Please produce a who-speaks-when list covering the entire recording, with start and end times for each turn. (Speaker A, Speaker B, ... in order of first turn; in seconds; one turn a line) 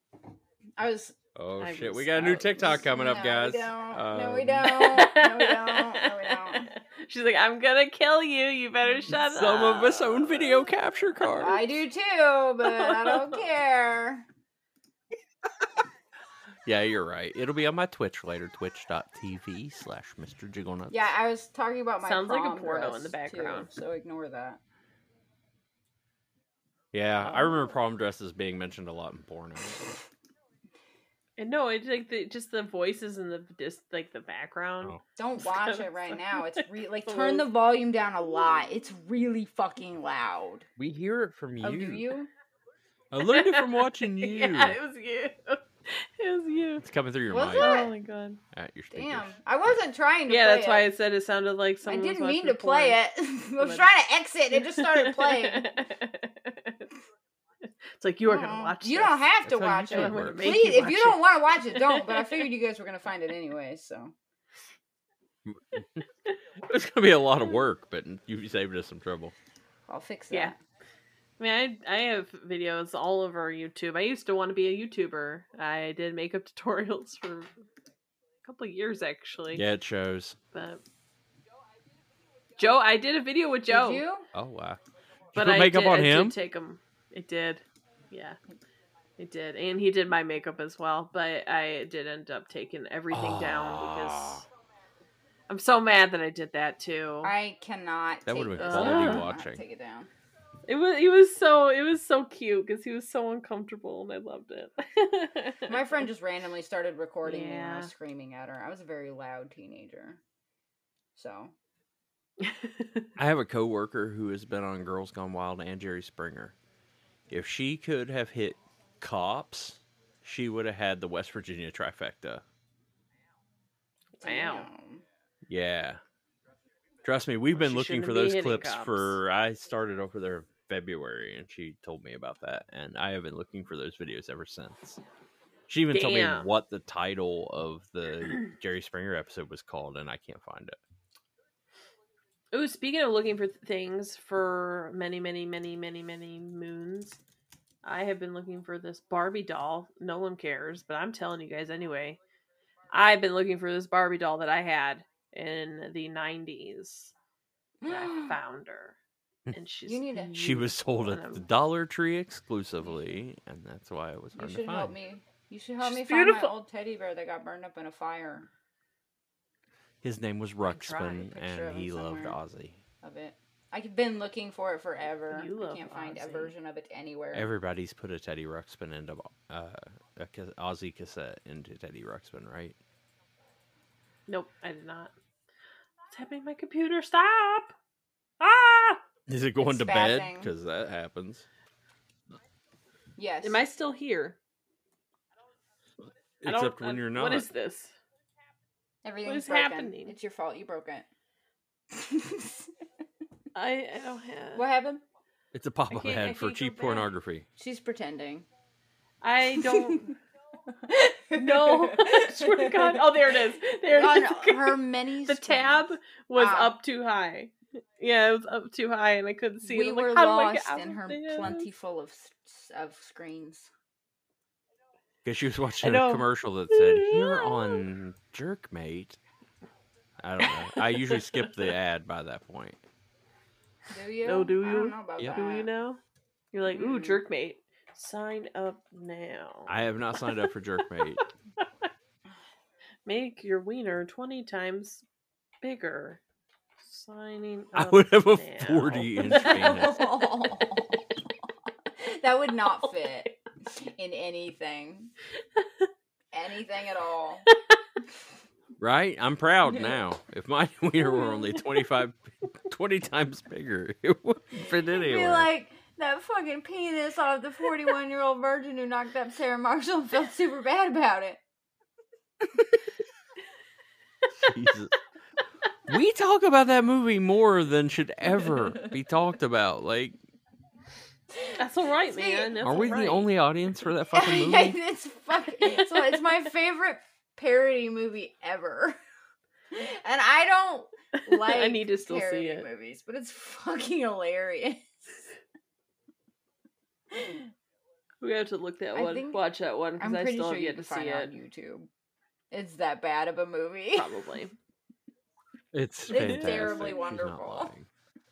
Speaker A: 0.8-1.1
Speaker B: 1.4-4.9
Speaker C: 1.6-2.8
Speaker A: 2.6-6.7
Speaker C: 4.6-10.6
Speaker B: 9.1-11.6
Speaker A: 11.3-14.2
Speaker C: 12.7-13.4
Speaker B: 16.6-21.0
Speaker A: 20.9-24.6
Speaker C: 22.0-23.7
Speaker B: 26.9-29.9
Speaker C: 27.2-27.6
Speaker C: 31.4-37.4
Speaker A: 35.1-40.7
Speaker B: 40.8-42.1
Speaker A: 41.6-42.3
Speaker B: 43.1-44.8
Speaker C: 43.2-46.8
Speaker B: 46.8-47.8
Speaker A: 47.3-47.9
Speaker C: 47.6-48.4
Speaker B: 48.5-49.3
Speaker A: 48.9-50.9
Speaker C: 50.3-53.0
Speaker A: 51.8-55.8
Speaker C: 53.6-53.9
Speaker C: 54.5-56.9
Speaker C: 57.8-59.3
Speaker A: 58.2-64.1
Speaker B: 59.4-60.6
Speaker C: 59.9-62.4
Speaker B: 65.5-66.0
Speaker B: 66.6-69.3
Speaker A: 69.9-70.6
Speaker C: 71.4-77.5
Speaker C: 78.4-79.6
Speaker B: 79.5-80.4
Speaker C: 80.5-80.8
Speaker C: 82.6-84.0
Speaker A: 83.7-84.3
Speaker B: 84.3-84.8
Speaker B: 85.3-86.3
Speaker C: 85.3-88.4
Speaker C: 89.2-94.4
Speaker B: 93.1-94.4
Speaker C: 95.5-97.3
Speaker A: 97.2-100.1
Speaker B: 98.2-99.6
Speaker C: 98.6-99.3
Speaker C: 100.7-105.8
Speaker A: 105.7-110.2
Speaker C: 107.2-107.9
Speaker A: 111.1-111.5
Speaker C: 112.4-113.1
Speaker B: 113.2-116.5
Speaker B: 117.3-122.4
Speaker C: 124.2-124.7
Speaker A: 124.2-125.0
Speaker B: 125.5-126.0
Speaker B: 127.0-135.0
Speaker C: 127.5-129.2
Speaker B: 135.7-140.8
Speaker C: 135.9-136.5
Speaker C: 142.5-147.2
Speaker C: 147.8-152.2
Speaker C: 152.9-157.1
Speaker A: 157.8-158.3
Speaker C: 157.9-159.0
Speaker C: 159.5-161.4
Speaker A: 159.8-160.4
Speaker B: 160.4-164.9
Speaker A: 164.4-168.5
Speaker C: 165.8-166.5
Speaker B: 170.0-172.8
Speaker C: 170.7-171.2
Speaker A: 170.9-172.4
Speaker A: 173.0-177.5
Speaker C: 175.3-176.5
Speaker B: 177.3-182.8
Speaker C: 184.3-185.1
Speaker C: 186.1-187.7
Speaker C: 188.4-189.0
Speaker B: 189.3-191.4
Speaker A: 189.6-190.5
Speaker A: 193.2-193.6
Speaker C: 193.4-194.4
Speaker B: 196.4-197.5
Speaker C: 196.4-197.9
Speaker A: 199.0-201.1
Speaker C: 199.2-200.1
Speaker A: 201.9-202.7
Speaker C: 203.5-204.6
Speaker A: 204.5-205.0
Speaker B: 205.5-207.4
Speaker C: 205.9-207.1
Speaker A: 207.6-208.5
Speaker C: 209.2-210.1
Speaker A: 209.6-210.0
Speaker A: 210.7-213.0
Speaker C: 211.3-221.7
Speaker A: 213.9-216.8
Speaker A: 219.6-223.7
Speaker B: 225.2-229.2
Speaker C: 225.8-227.8
Speaker B: 230.2-232.8
Speaker C: 230.4-231.5
Speaker A: 233.9-235.7
Speaker C: 234.2-236.0
Speaker C: 236.5-239.7
Speaker A: 236.7-237.2
Speaker B: 239.7-241.2
Speaker C: 241.0-241.7
Speaker C: 243.1-245.0
Speaker C: 245.6-246.2
Speaker C: 246.8-250.7
Speaker B: 247.7-250.0
Speaker A: 249.3-251.1
Speaker A: 252.0-255.1
Speaker C: 255.6-255.9
Speaker A: 256.3-257.4
Speaker C: 257.5-257.8
Speaker B: 258.8-265.5
Speaker A: 259.7-260.0
Speaker A: 264.9-271.4
Speaker B: 274.4-274.9
Speaker B: 275.9-280.1
Speaker C: 281.6-283.3
Speaker A: 282.1-282.9
Speaker B: 282.6-284.8
Speaker A: 284.1-289.0
Speaker C: 285.6-286.1
Speaker A: 289.7-295.3
Speaker C: 291.2-292.7
Speaker A: 297.1-297.5
Speaker C: 298.2-301.3
Speaker A: 298.9-299.4
Speaker A: 300.0-301.9
Speaker A: 302.5-304.3
Speaker C: 303.9-304.5
Speaker B: 305.7-307.9
Speaker A: 306.1-307.7
Speaker C: 306.1-306.7